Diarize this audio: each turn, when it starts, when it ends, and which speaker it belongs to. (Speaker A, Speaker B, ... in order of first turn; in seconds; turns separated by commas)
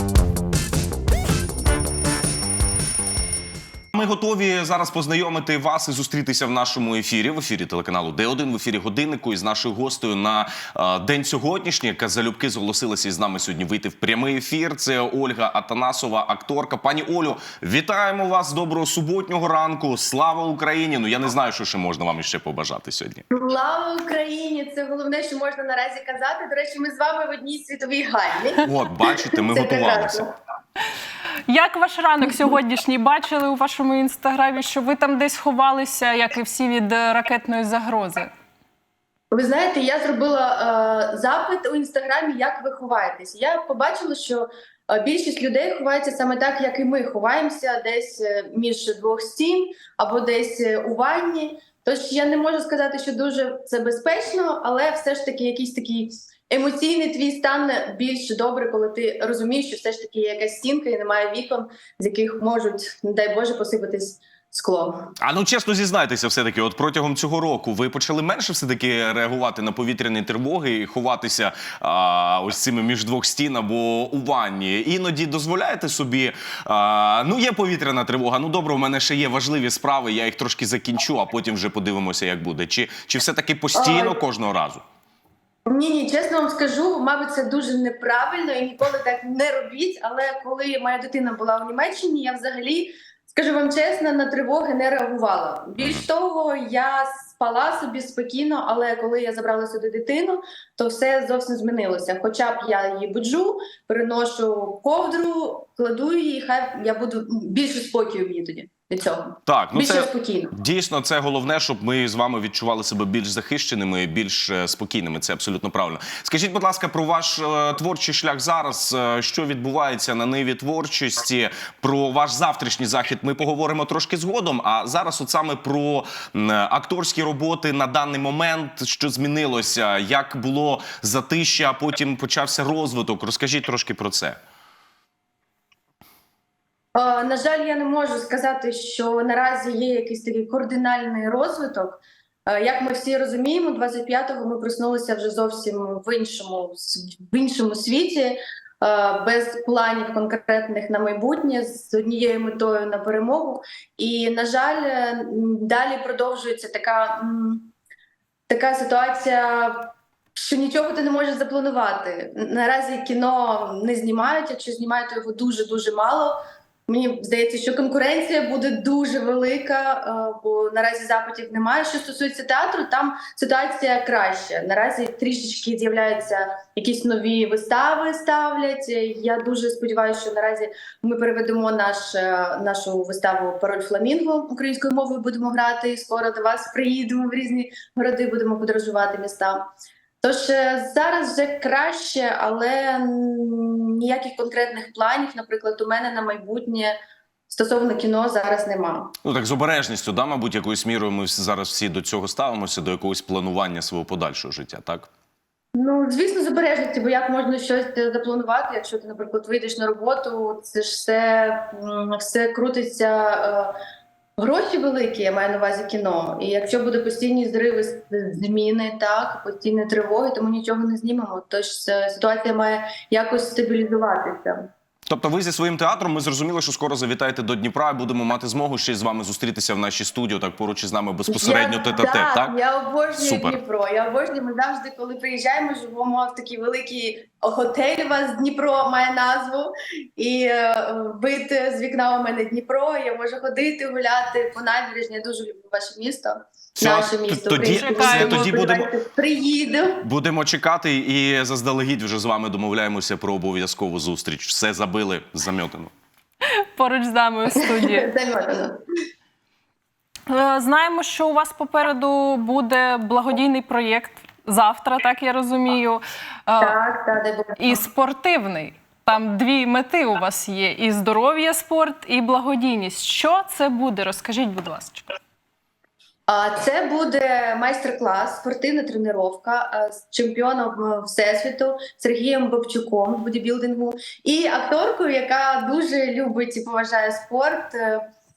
Speaker A: 3.9-23.2, Speaker B: 23.3-28.7, Speaker A: 28.6-30.2, Speaker B: 29.2-30.3, Speaker C: 31.5-38.3, Speaker B: 39.3-65.1, Speaker A: 65.2-84.8, Speaker B: 83.7-84.2, Speaker B: 85.7-110.5, Speaker A: 95.8-96.1, Speaker A: 109.5-134.4, Speaker B: 136.9-157.7, Speaker B: 158.5-166.4, Speaker B: 166.9-189.7, Speaker B: 190.2-197.0, Speaker B: 197.5-199.1, Speaker A: 199.2-205.1, Speaker B: 205.8-213.7, Speaker B: 214.4-224.7, Speaker A: 225.1-232.5, Speaker B: 231.3-250.0, Speaker A: 233.2-233.6, Speaker A: 246.8-248.9, Speaker C: 247.5-248.5, Speaker A: 250.0-255.9, Speaker C: 256.8-258.1, Speaker B: 257.6-258.8, Speaker C: 260.3-266.8, Speaker B: 266.6-267.8, Speaker C: 267.6-275.1, Speaker B: 276.3-288.1